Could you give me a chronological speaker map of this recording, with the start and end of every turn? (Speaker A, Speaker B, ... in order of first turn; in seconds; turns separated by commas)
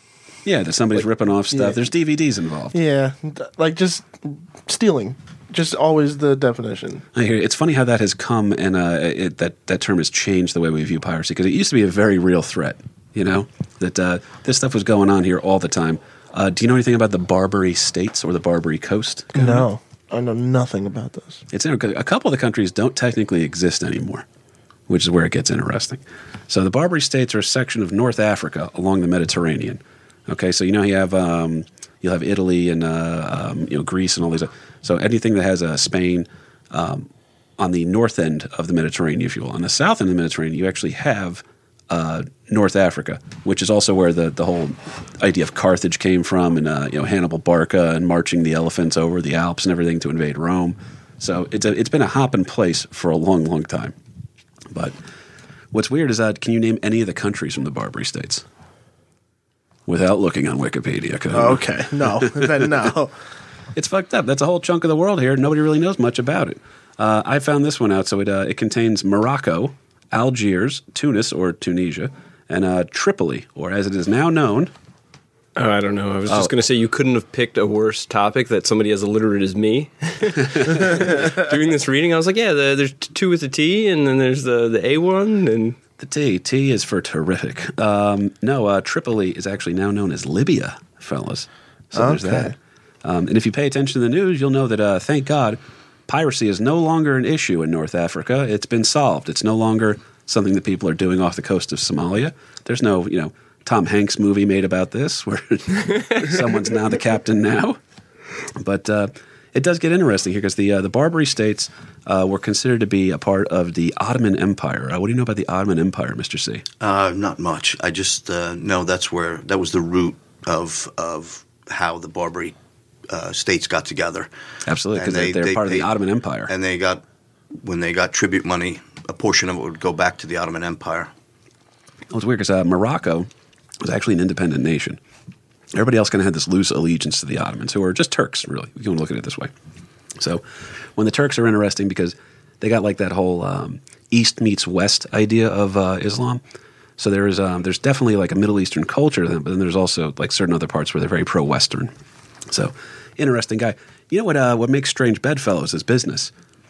Speaker A: 0.4-2.7, Speaker B: 1.5-1.8, Speaker B: 2.7-7.0, Speaker A: 7.1-19.6, Speaker B: 19.3-21.4, Speaker A: 21.5-24.2, Speaker A: 24.9-54.0, Speaker A: 55.7-58.5, Speaker A: 59.9-62.9, Speaker B: 61.3-63.1, Speaker A: 63.7-74.7, Speaker C: 75.5-85.8, Speaker A: 76.3-76.5, Speaker A: 80.4-81.0, Speaker A: 86.0-107.8, Speaker B: 91.9-92.5, Speaker A: 108.6-116.6, Speaker D: 116.8-122.5, Speaker D: 123.1-124.3, Speaker A: 124.7-126.5, Speaker D: 124.9-125.9, Speaker D: 126.5-127.0, Speaker D: 127.5-131.1, Speaker A: 132.1-133.3, Speaker A: 133.8-135.0, Speaker A: 135.7-139.5, Speaker A: 140.2-140.4, Speaker A: 140.9-146.4, Speaker A: 147.0-151.9, Speaker A: 152.5-156.3